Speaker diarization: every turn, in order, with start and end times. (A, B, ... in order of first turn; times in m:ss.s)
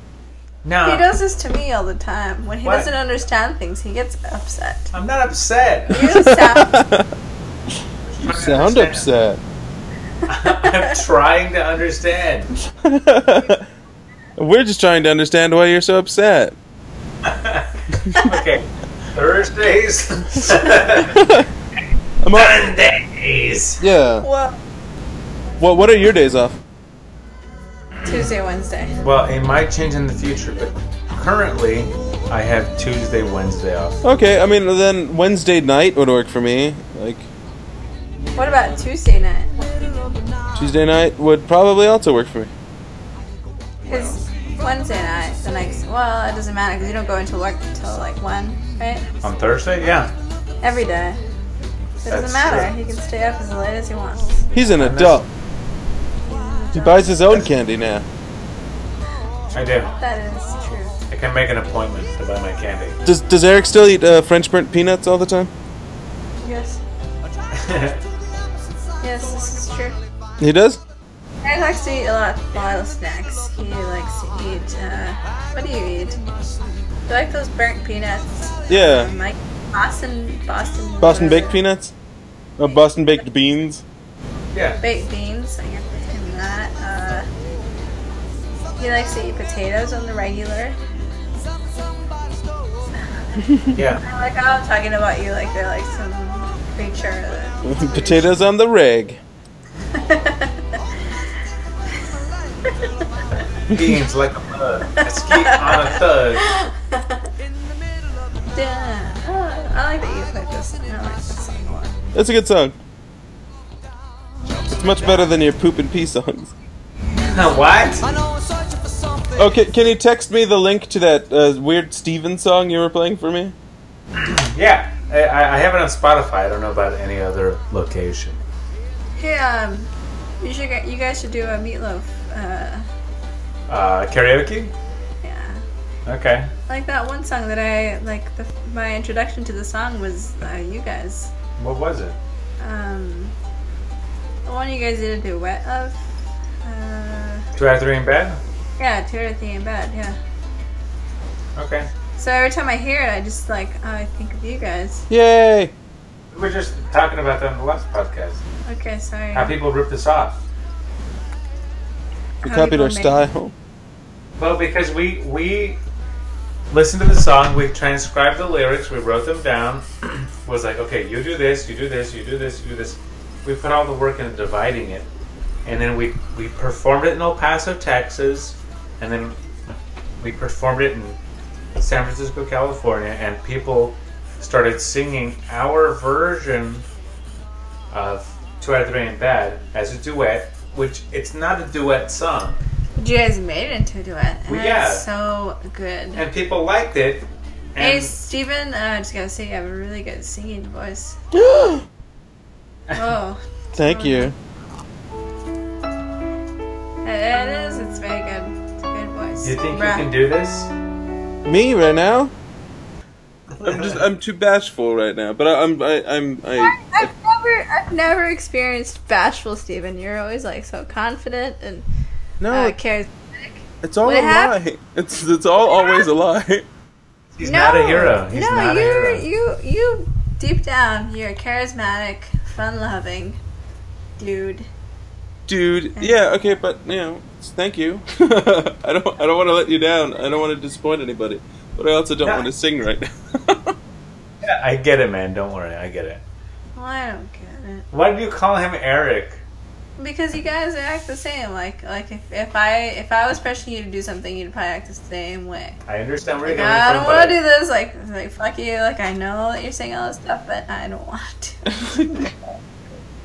0:00.6-0:01.1 A
0:00.8-0:04.9 B
0:02.6-0:02.9 A
0:04.9-0:06.1 A
0:05.9-0:06.8 B
0:06.0-0:07.1 C
0:08.0-0:09.1 A
0:08.2-0:09.4 C
0:10.3-0:12.5 A
0:12.7-0:13.6 C
0:14.4-0:16.5 C
0:17.2-0:21.2 A
0:21.1-0:21.5 C
0:22.2-0:22.7 C
0:22.3-0:23.8 A
0:23.8-0:24.2 C
0:24.2-0:24.6 B
0:25.6-0:26.6 C
0:28.1-0:29.0 B
0:29.0-0:34.0 A
0:34.0-0:37.3 C
0:38.3-0:39.7 B
0:40.5-0:42.5 C
0:43.9-0:44.1 C
0:43.9-0:49.1 B
0:49.2-0:50.1 A
0:50.6-0:51.2 B
0:52.0-0:54.5 B
0:52.1-0:52.7 A
0:54.5-0:55.3 C
0:54.8-0:55.2 A
0:56.2-0:57.2 B
0:56.7-0:58.0 C
0:59.5-0:59.9 A
1:00.0-1:01.0 B
1:01.1-1:03.0 A
1:03.0-1:05.5 C
1:06.4-1:06.8 B
1:07.5-1:08.0 A
1:09.0-1:10.0 B
1:10.4-1:10.8 C
1:11.4-1:16.2 B
1:17.1-1:21.6 B
1:18.7-1:19.1 C
1:21.0-1:21.9 C
1:22.6-1:23.8 C
1:24.5-1:24.8 A
1:24.8-1:27.3 B
1:28.8-1:30.8 B
1:33.7-1:34.0 A
1:34.0-1:38.3 B
1:37.6-1:39.2 C
1:39.9-1:40.8 B
1:43.7-1:46.5 A
1:45.3-1:47.2 B
1:48.5-1:52.0 B
1:52.1-1:52.7 C
1:54.6-1:56.5 C
1:57.2-1:58.1 A
1:59.3-2:03.5 C
2:04.2-2:08.4 A
2:09.2-2:12.9 B
2:13.7-2:14.7 A
2:15.2-2:15.6 B
2:16.0-2:16.5 A
2:16.7-2:21.3 B
2:21.6-2:22.2 A
2:22.6-2:23.3 B
2:24.4-2:26.0 B
2:26.6-2:27.4 B
2:27.6-2:28.4 A
2:28.8-2:30.2 B
2:31.6-2:31.9 A
2:32.2-2:35.0 B
2:35.1-2:35.7 C
2:36.3-2:38.4 A
2:38.6-2:39.6 B
2:39.3-2:40.4 A
2:42.4-2:43.2 B
2:42.4-2:43.5 C
2:44.4-2:45.8 A
2:46.7-2:55.1 A
2:55.6-2:59.4 A
3:00.2-3:01.2 A
3:01.8-3:06.8 A
3:07.9-3:12.6 A
3:13.0-3:16.2 B
3:14.5-3:15.0 A
3:16.1-3:18.1 A
3:17.8-3:21.2 B
3:21.3-3:21.8 C
3:22.9-3:24.3 B
3:23.7-3:24.3 C
3:27.0-3:30.1 B
3:29.4-3:30.7 A
3:31.4-3:32.3 C
3:33.5-3:34.0 A
3:33.6-3:37.1 C
3:36.6-3:41.8 B
3:42.4-3:42.8 C
3:42.5-3:44.5 B
3:43.8-3:46.6 C
3:45.6-3:46.1 B
3:47.4-3:49.2 A
3:47.4-3:53.4 B
3:54.2-3:54.7 B
3:55.5-4:03.7 C
4:02.2-4:02.5 A
4:04.4-4:06.2 A
4:06.7-4:07.9 B
4:07.9-4:09.4 A
4:10.0-4:15.8 B
4:15.8-4:17.4 A
4:16.4-4:21.7 B
4:21.6-4:22.3 C